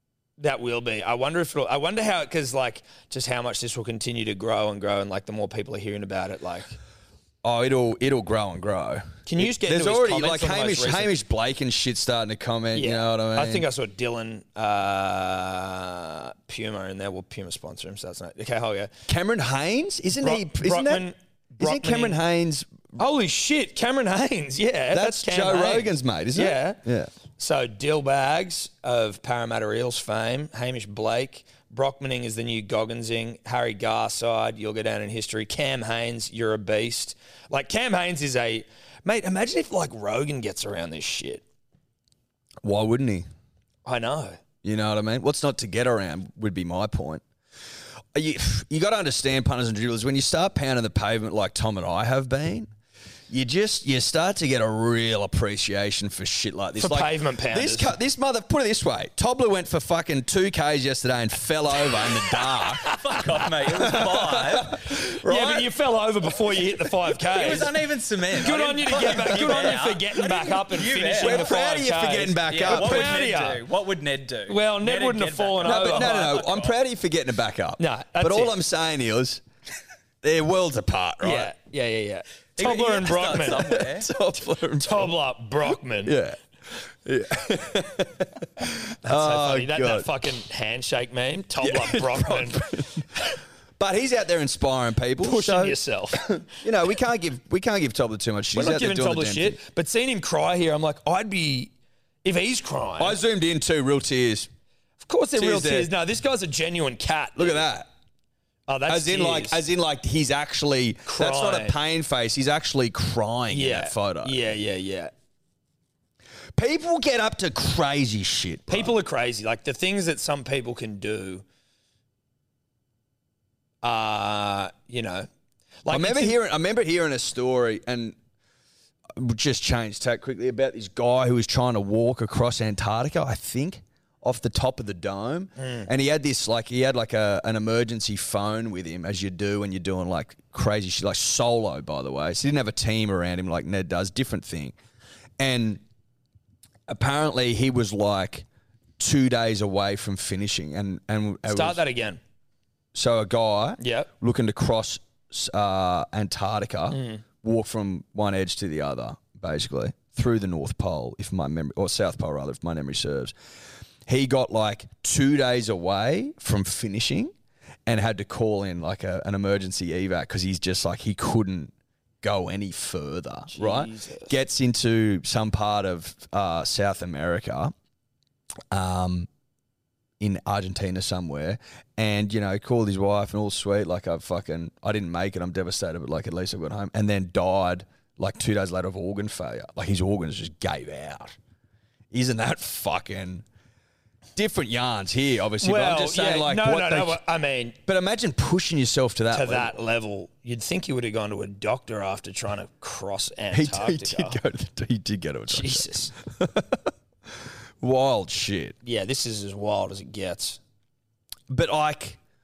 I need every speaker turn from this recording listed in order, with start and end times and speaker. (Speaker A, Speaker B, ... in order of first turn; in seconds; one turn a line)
Speaker A: 0.4-6.8
Speaker B: 7.4-13.6
Speaker A: 9.2-11.2
Speaker A: 12.7-18.9
Speaker B: 19.1-21.1
Speaker A: 20.2-22.2
Speaker B: 21.6-23.0
Speaker A: 22.9-26.8
Speaker B: 24.9-27.1
Speaker A: 27.4-41.4
Speaker B: 42.6-43.3
Speaker A: 43.8-44.4
Speaker B: 44.6-47.2
Speaker B: 48.1-52.7
Speaker B: 53.3-62.9
Speaker A: 56.8-57.9
Speaker A: 62.6-67.7
Speaker C: 62.9-64.8
Speaker B: 63.8-65.7
Speaker C: 67.3-71.6
Speaker A: 68.3-73.6
Speaker B: 71.1-73.3
Speaker C: 72.5-76.7
Speaker A: 74.5-76.5
Speaker B: 75.6-79.4
Speaker A: 77.8-78.5
Speaker B: 80.2-81.5
Speaker A: 81.2-83.8
Speaker C: 82.6-84.1
Speaker B: 83.6-85.1
Speaker A: 84.8-86.2
Speaker B: 86.0-90.1
Speaker A: 89.0-93.0
Speaker B: 91.6-93.3
Speaker B: 93.8-99.6
Speaker A: 95.2-96.5
Speaker A: 98.5-101.7
Speaker A: 102.2-103.2
Speaker B: 103.0-104.5
Speaker A: 105.0-107.7
Speaker B: 105.3-105.9
Speaker B: 107.4-107.9
Speaker A: 108.7-109.6
Speaker B: 108.9-114.4
Speaker A: 111.0-111.8
Speaker A: 113.5-115.1
Speaker B: 116.5-118.9
Speaker A: 118.7-121.4
Speaker A: 123.8-125.3
Speaker A: 125.8-126.3
Speaker B: 125.9-128.2
Speaker B: 129.1-144.7
Speaker A: 135.6-135.9
Speaker B: 145.4-145.8
Speaker B: 146.9-148.4
Speaker B: 149.0-151.8
Speaker A: 151.4-152.2
Speaker B: 152.9-163.3
Speaker A: 153.8-154.1
Speaker A: 156.9-157.2
Speaker B: 164.1-167.3
Speaker B: 167.9-177.7
Speaker A: 173.5-174.3
Speaker B: 178.7-179.3
Speaker B: 180.2-191.3
Speaker B: 192.1-193.4
Speaker B: 194.3-197.2
Speaker A: 195.6-197.8
Speaker B: 197.9-199.7
Speaker A: 199.3-204.4
Speaker B: 203.5-206.9
Speaker A: 205.5-206.1
Speaker B: 207.8-208.8
Speaker A: 208.8-210.6
Speaker B: 211.5-212.2